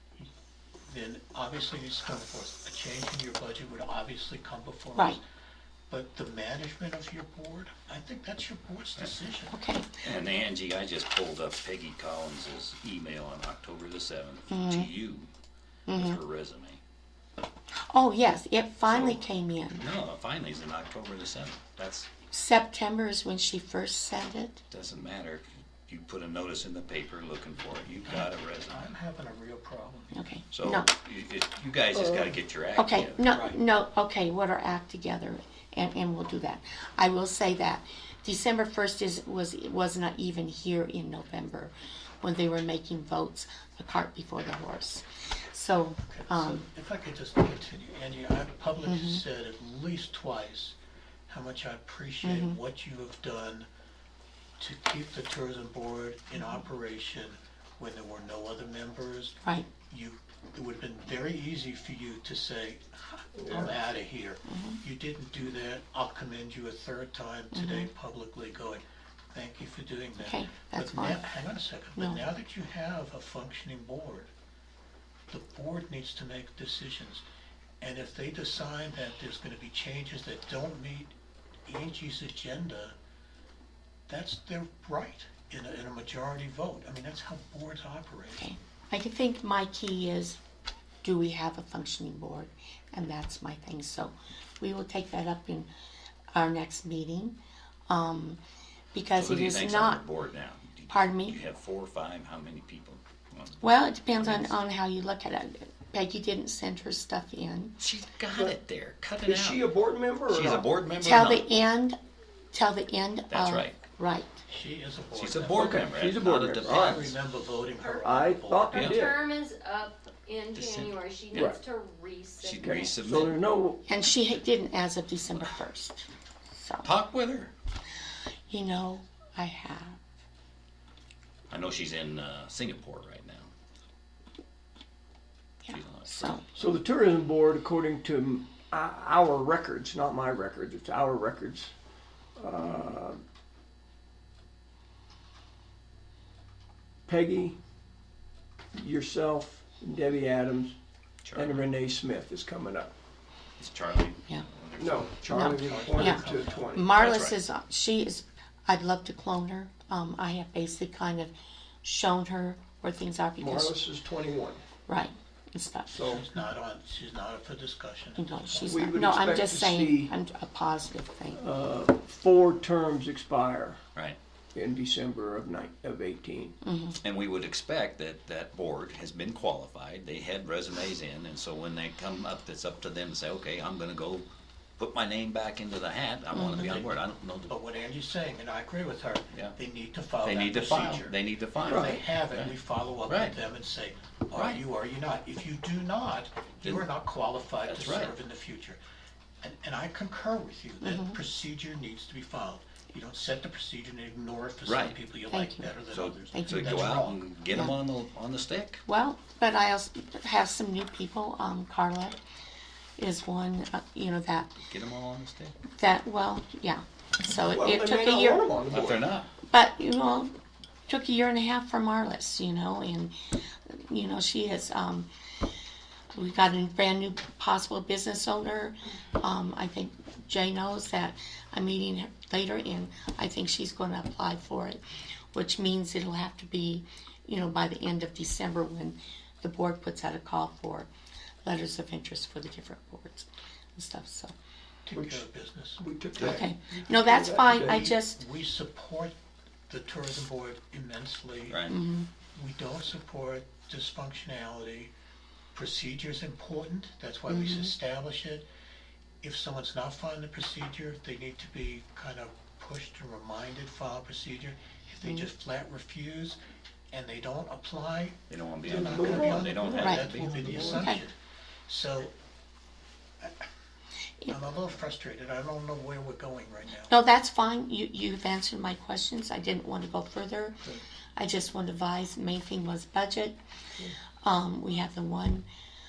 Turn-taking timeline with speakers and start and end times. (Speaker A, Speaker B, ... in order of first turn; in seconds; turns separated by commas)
Speaker A: 0.8-5.2, Speaker A: 5.9-9.6, Speaker B: 9.5-9.9, Speaker C: 10.0-15.3, Speaker B: 14.5-14.9, Speaker B: 15.9-16.2, Speaker C: 15.9-16.8, Speaker B: 17.8-19.8, Speaker C: 18.9-19.2, Speaker C: 19.8-22.1, Speaker B: 22.3-24.6, Speaker C: 24.7-28.9, Speaker A: 28.1-30.2, Speaker B: 30.1-30.9, Speaker C: 30.5-33.2, Speaker B: 32.8-46.6, Speaker A: 33.2-33.6, Speaker A: 46.1-50.8, Speaker B: 48.8-49.2, Speaker A: 51.3-53.7, Speaker B: 52.2-52.6, Speaker A: 54.6-59.4, Speaker B: 59.4-59.7, Speaker A: 59.9-74.3, Speaker D: 63.4-63.8, Speaker B: 64.5-64.8, Speaker B: 67.5-67.9, Speaker B: 70.2-71.3, Speaker B: 72.0-72.2, Speaker A: 75.3-77.2, Speaker A: 77.8-81.1, Speaker A: 81.7-82.9, Speaker A: 84.1-88.5, Speaker B: 88.4-90.4, Speaker B: 91.0-95.7, Speaker B: 96.3-97.4, Speaker B: 97.9-98.4, Speaker B: 98.9-100.0, Speaker C: 99.1-103.6, Speaker B: 100.9-101.4, Speaker B: 103.6-107.7, Speaker C: 104.2-104.5, Speaker C: 107.8-109.7, Speaker D: 108.3-108.6, Speaker D: 109.2-110.7, Speaker C: 110.3-111.4, Speaker B: 111.0-112.0, Speaker B: 112.5-114.4, Speaker C: 113.3-113.8, Speaker A: 114.5-115.9, Speaker C: 115.1-117.2, Speaker D: 115.5-117.0, Speaker A: 116.6-119.0, Speaker D: 118.0-119.2, Speaker C: 118.7-119.0, Speaker E: 118.7-123.1, Speaker C: 120.5-121.5, Speaker D: 121.3-121.6, Speaker C: 122.4-123.4, Speaker D: 122.6-123.8, Speaker B: 123.8-126.9, Speaker C: 126.8-127.5, Speaker B: 128.5-130.0, Speaker C: 131.5-133.5, Speaker B: 135.7-136.5, Speaker C: 135.7-136.4, Speaker D: 136.6-141.7, Speaker D: 142.4-143.2, Speaker D: 147.1-147.6, Speaker D: 148.7-150.7, Speaker C: 151.2-151.6, Speaker D: 151.3-152.9, Speaker C: 153.6-157.4, Speaker D: 154.8-156.9, Speaker B: 155.3-161.3, Speaker A: 155.4-156.7, Speaker B: 161.8-163.8, Speaker D: 163.4-164.6, Speaker B: 164.9-166.0, Speaker D: 165.9-166.2, Speaker A: 166.0-168.7, Speaker B: 168.2-171.4, Speaker D: 168.6-170.1, Speaker D: 171.3-173.8, Speaker D: 174.5-176.6, Speaker B: 176.6-177.0, Speaker C: 177.0-184.2, Speaker C: 184.8-187.5, Speaker B: 186.3-186.8, Speaker A: 186.6-186.9, Speaker A: 187.5-198.8, Speaker C: 190.2-193.4, Speaker D: 191.6-192.0, Speaker C: 194.3-194.6, Speaker C: 196.6-196.9, Speaker C: 197.6-198.1, Speaker A: 199.4-207.2, Speaker B: 200.8-201.2, Speaker C: 204.6-205.0, Speaker B: 205.3-206.9, Speaker C: 205.9-208.8, Speaker B: 208.9-212.2, Speaker B: 213.0-214.6, Speaker C: 214.6-215.6, Speaker B: 215.7-218.5, Speaker D: 217.4-219.1, Speaker C: 218.7-219.3, Speaker B: 219.5-220.3, Speaker B: 220.9-223.1, Speaker B: 223.7-225.1, Speaker B: 226.1-234.8, Speaker B: 235.3-240.9, Speaker B: 241.4-244.3, Speaker A: 244.8-245.8, Speaker D: 244.9-245.2, Speaker D: 245.8-247.9, Speaker C: 246.2-246.4, Speaker B: 246.2-248.2, Speaker A: 247.5-249.1, Speaker A: 249.7-251.6, Speaker C: 251.5-251.8, Speaker B: 251.7-252.1, Speaker A: 252.3-254.9, Speaker A: 255.5-258.4, Speaker B: 257.3-257.7, Speaker A: 259.2-266.4, Speaker A: 266.9-271.1, Speaker C: 268.3-270.9, Speaker D: 268.6-270.9, Speaker B: 269.8-270.1, Speaker B: 270.7-271.0, Speaker A: 271.7-272.1, Speaker A: 274.3-277.0, Speaker B: 276.9-280.6, Speaker B: 281.1-283.4, Speaker B: 284.2-285.4